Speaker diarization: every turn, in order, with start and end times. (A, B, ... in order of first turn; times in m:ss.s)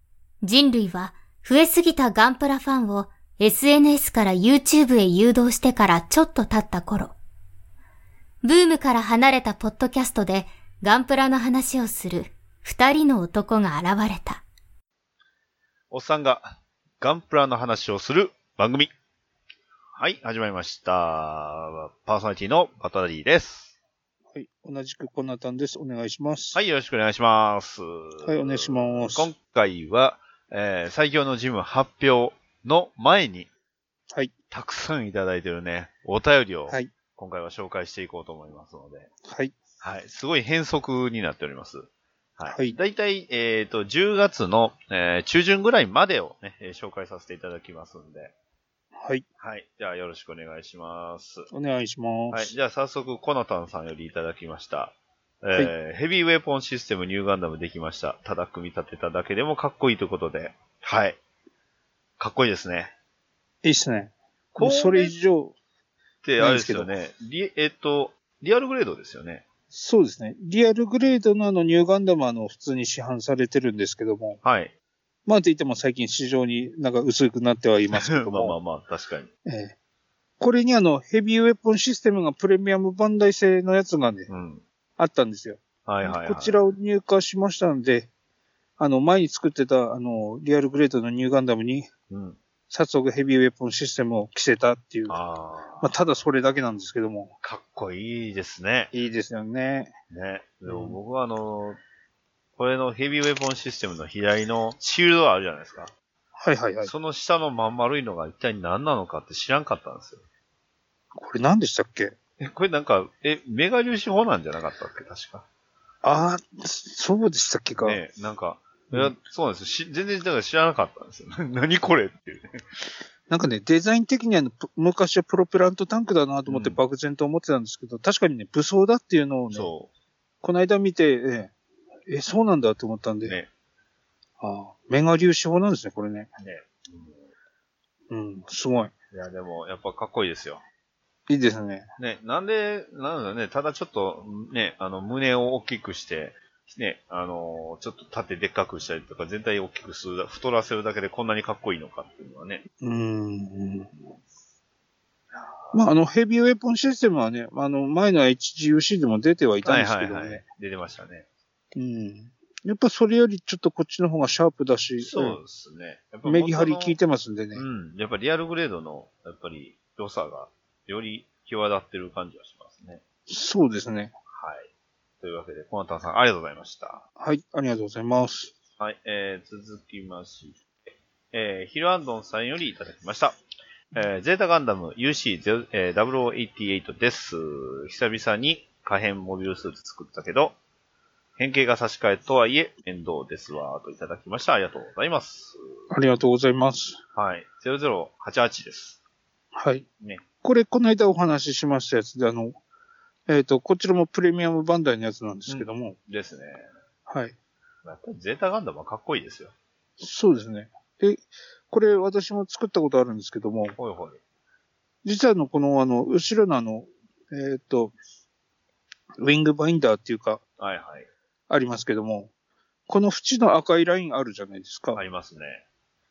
0:00.4-0:07.1 A
0:08.4-0:14.4 A
0:15.9-0:18.9 B
0:20.0-0:23.8 B
0:24.3-0:26.6 C
0:26.5-0:33.5 B
0:28.2-0:29.3 C
0:34.5-0:39.1 B
0:39.3-0:39.5 C
0:39.8-0:48.3 B
0:42.5-0:42.8 C
0:49.4-0:51.5 B
0:51.5-0:52.5 C
0:52.3-1:01.2 B
1:02.2-1:02.9 B
1:03.6-1:05.6 C
1:04.5-1:05.1 B
1:06.2-1:09.4 B
1:06.4-1:06.9 C
1:09.7-1:14.4 C
1:14.4-1:14.7 B
1:15.3-1:18.6 C
1:17.9-1:19.3 B
1:19.4-1:19.8 C
1:20.4-1:24.3 C
1:24.3-1:24.6 B
1:25.0-1:28.1 C
1:25.8-1:26.6 B
1:28.8-1:31.9 C
1:32.1-1:32.4 B
1:32.7-1:35.2 C
1:35.1-1:35.9 B
1:35.8-1:37.3 C
1:37.4-1:38.9 B
1:38.9-1:39.9 C
1:40.1-1:41.8 B
1:40.7-1:41.0 C
1:42.6-1:45.9 B
1:46.4-1:46.9 C
1:46.8-1:50.2 B
1:51.2-1:52.2 C
1:52.4-1:55.4 B
1:56.0-1:58.0 C
1:57.8-2:02.9 B
2:03.3-2:09.7 C
2:06.5-2:06.8 B
2:09.5-2:09.9 B
2:10.4-2:11.5 C
2:12.1-2:13.4 C
2:13.2-2:13.5 B
2:14.4-2:16.3 C
2:16.4-2:17.2 B
2:18.1-2:18.9 C
2:19.1-2:20.6 B
2:21.3-2:21.9 C
2:22.0-2:32.7 B
2:32.8-2:33.9 C
2:35.3-2:35.8 B
2:35.7-2:40.4 C
2:39.6-2:41.3 B
2:41.8-2:45.4 C
2:45.0-2:47.0 B
2:46.2-2:47.6 C
2:47.5-2:53.0 B
2:53.3-2:54.1 C
2:54.3-2:54.7 B
2:55.2-2:57.0 B
2:57.2-2:58.5 C
2:58.8-3:00.6 B
3:01.3-3:03.4 B
3:03.9-3:10.6 B
3:11.4-3:15.6 B
3:15.9-3:17.0 C
3:17.2-3:19.0 B
3:19.5-3:19.8 C
3:20.4-3:22.6 C
3:23.3-3:26.0 C
3:25.5-3:26.7 B
3:27.1-3:27.3 C
3:27.8-3:29.5 B
3:30.0-3:33.8 C
3:33.8-3:34.2 B
3:35.0-3:37.9 C
3:39.2-3:40.4 C
3:40.6-3:41.1 B
3:41.5-3:42.3 C
3:42.9-3:45.0 C
3:44.9-3:45.6 B